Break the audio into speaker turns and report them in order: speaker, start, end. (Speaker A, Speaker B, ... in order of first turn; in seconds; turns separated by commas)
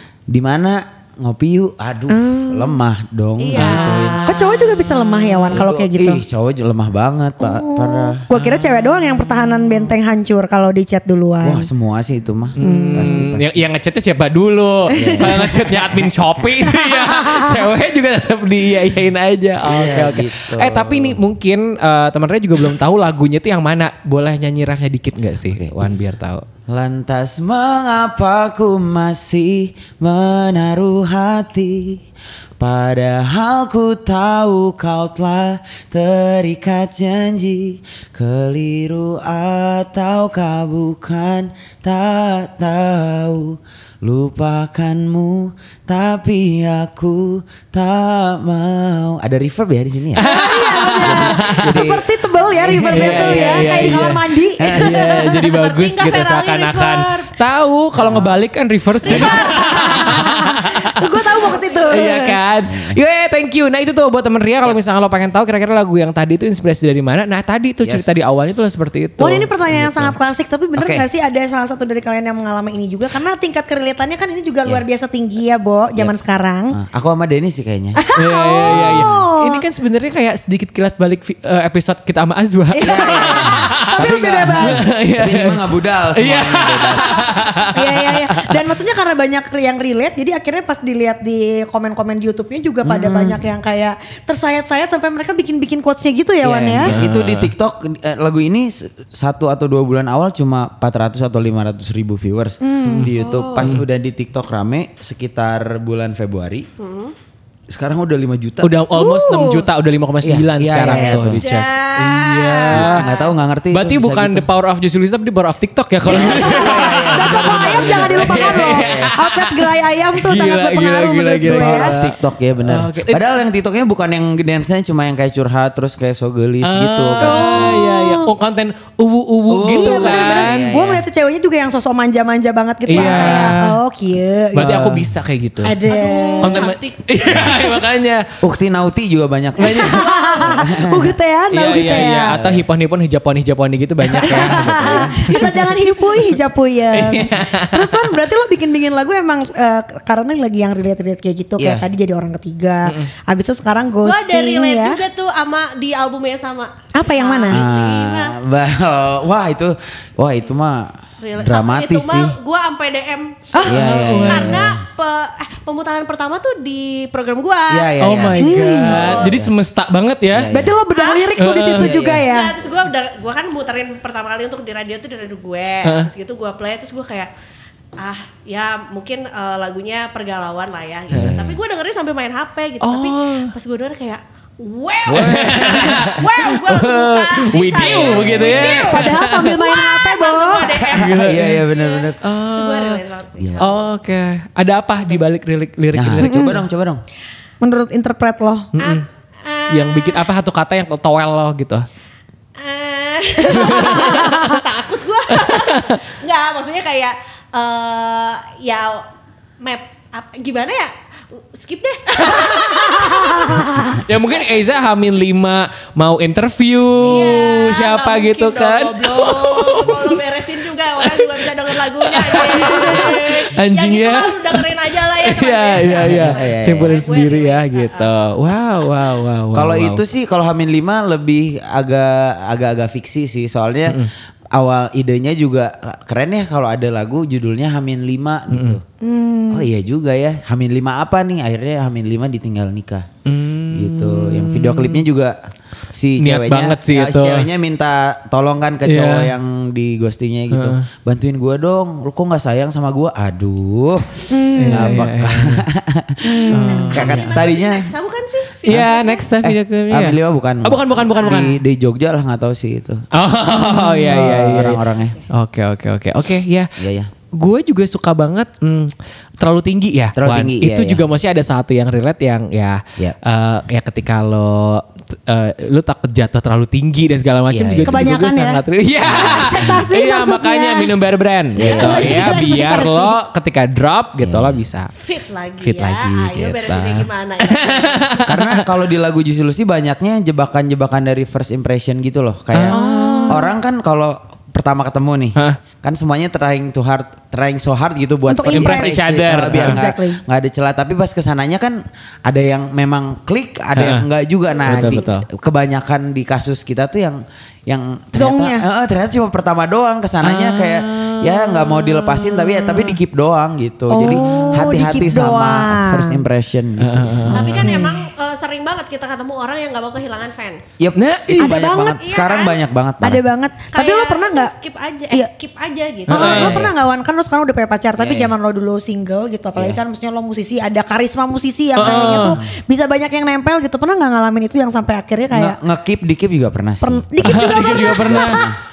Speaker A: 0.3-4.3, Speaker B: 2.1-2.8, Speaker C: 3.4-4.3, Speaker D: 3.5-4.8, Speaker B: 4.2-6.2, Speaker A: 5.5-8.2, Speaker B: 7.4-11.7, Speaker D: 8.3-8.8, Speaker A: 11.4-13.6, Speaker D: 12.6-26.4, Speaker B: 12.6-13.3, Speaker A: 14.9-16.5, Speaker B: 15.1-15.5, Speaker B: 16.8-17.4, Speaker A: 19.6-21.2, Speaker A: 25.4-25.7, Speaker A: 26.7-32.0, Speaker A: 32.6-50.3, Speaker B: 50.2-55.2, Speaker D: 50.2-51.8, Speaker A: 51.0-52.0, Speaker A: 52.6-54.1, Speaker D: 52.9-70.1, Speaker A: 54.6-55.3, Speaker C: 55.4-57.3, Speaker A: 58.0-58.3, Speaker C: 59.0-59.9, Speaker B: 59.0-62.4, Speaker A: 62.7-63.0, Speaker A: 67.8-68.6, Speaker B: 69.2-76.8, Speaker A: 70.8-71.1, Speaker A: 76.7-78.0, Speaker B: 78.0-79.7, Speaker D: 78.2-84.0, Speaker A: 78.6-79.1, Speaker B: 82.7-84.8, Speaker A: 82.8-87.6, Speaker D: 84.6-85.6, Speaker D: 86.1-88.6, Speaker B: 87.7-96.9, Speaker A: 92.8-93.4, Speaker A: 96.4-106.7, Speaker D: 96.8-97.5, Speaker B: 102.6-103.1, Speaker D: 102.9-103.8, Speaker C: 103.2-103.6, Speaker C: 106.8-107.1, Speaker A: 107.7-108.7, Speaker D: 108.6-113.0, Speaker B: 108.9-109.7, Speaker A: 110.2-111.6, Speaker C: 110.9-113.4, Speaker A: 112.7-114.5, Speaker D: 113.7-122.1, Speaker A: 116.1-119.1, Speaker B: 116.2-122.0, Speaker A: 121.5-127.7, Speaker D: 122.6-123.3, Speaker D: 126.6-130.6, Speaker B: 127.2-128.3, Speaker A: 129.5-131.1, Speaker B: 129.7-134.8, Speaker D: 132.8-133.8, Speaker A: 132.9-133.6, Speaker D: 134.5-135.8, Speaker A: 134.6-135.1, Speaker B: 135.6-136.7, Speaker C: 135.8-137.8, Speaker D: 136.4-138.2, Speaker A: 138.4-141.1, Speaker D: 139.6-140.6, Speaker B: 139.6-142.4, Speaker D: 141.5-146.2, Speaker A: 142.1-142.6, Speaker B: 144.1-155.0, Speaker A: 144.4-145.1, Speaker D: 146.9-148.0, Speaker A: 151.6-151.8, Speaker C: 154.0-158.4, Speaker B: 156.9-157.6, Speaker A: 157.5-162.4, Speaker C: 161.2-169.3, Speaker B: 163.5-163.8, Speaker A: 163.6-164.7, Speaker D: 163.7-164.6, Speaker A: 167.7-169.5, Speaker D: 168.0-170.5, Speaker B: 168.4-169.0, Speaker A: 170.3-170.7, Speaker B: 170.5-172.5, Speaker C: 170.9-171.3, Speaker D: 171.3-171.9, Speaker A: 171.8-172.2, Speaker C: 172.3-177.3, Speaker D: 175.8-176.1, Speaker C: 178.0-193.8, Speaker A: 181.1-181.6, Speaker D: 182.8-183.5, Speaker A: 185.1-186.1, Speaker D: 185.1-189.9, Speaker A: 187.8-188.6, Speaker B: 188.4-190.8, Speaker A: 190.8-192.2, Speaker D: 190.9-191.6, Speaker D: 192.2-193.0, Speaker A: 193.4-193.7, Speaker D: 193.6-196.6, Speaker A: 195.9-197.0, Speaker B: 196.2-196.6, Speaker B: 197.6-198.7, Speaker D: 198.7-199.0, Speaker C: 198.8-200.3, Speaker D: 199.7-201.8, Speaker C: 202.6-209.1, Speaker D: 203.5-204.2, Speaker D: 205.5-205.8, Speaker C: 209.6-213.7, Speaker B: 213.1-213.7, Speaker D: 213.7-220.2, Speaker C: 216.9-228.1, Speaker D: 222.1-224.6, Speaker D: 225.2-230.0, Speaker A: 226.1-226.9, Speaker A: 229.5-238.8, Speaker D: 238.5-238.8, Speaker B: 239.0-239.7, Speaker A: 239.5-243.1, Speaker D: 243.3-245.1, Speaker A: 243.7-245.3, Speaker A: 245.9-257.9, Speaker D: 246.2-247.5, Speaker D: 248.9-249.3, Speaker D: 250.5-250.8, Speaker B: 254.3-255.0, Speaker D: 254.6-255.7, Speaker B: 256.2-257.1, Speaker D: 256.5-257.4, Speaker C: 256.9-259.3, Speaker D: 258.6-261.6, Speaker A: 259.4-263.0, Speaker D: 263.1-266.7, Speaker B: 263.5-264.2, Speaker A: 264.0-265.2, Speaker A: 266.8-267.1, Speaker D: 267.3-284.9, Speaker A: 270.1-271.1, Speaker A: 277.5-278.1, Speaker B: 277.8-278.6, Speaker A: 279.0-279.8, Speaker B: 279.2-280.9, Speaker A: 281.6-282.5, Speaker B: 281.6-283.2, Speaker C: 281.7-282.0, Speaker A: 284.2-284.6, Speaker C: 284.9-288.3, Speaker D: 285.6-286.6, Speaker A: 286.6-287.1, Speaker D: 287.5-288.6, Speaker A: 288.2-317.5, Speaker D: 292.5-293.5, Speaker B: 292.6-293.5, Speaker B: 298.2-300.2, Speaker D: 298.5-299.8, Speaker D: 303.8-304.0, Speaker D: 304.6-305.3, Speaker B: 308.1-308.6, Speaker D: 310.2-313.0, Speaker B: 313.9-316.2, Speaker D: 314.1-314.6, Speaker D: 316.8-317.7, Speaker C: 317.3-320.8, Speaker B: 317.4-318.0, Speaker A: 320.8-323.2, Speaker D: 321.0-321.5, Speaker B: 321.4-322.0, Speaker C: 322.0-322.6, Speaker B: 323.0-324.5, Speaker C: 323.7-326.5, Speaker B: 326.1-335.6, Speaker D: 326.1-326.7, Speaker A: 326.1-326.7, Speaker A: 328.0-328.3, Speaker D: 331.8-332.4, Speaker A: 331.8-332.5, Speaker A: 335.3-338.6, Speaker B: 336.8-338.4, Speaker D: 337.2-338.5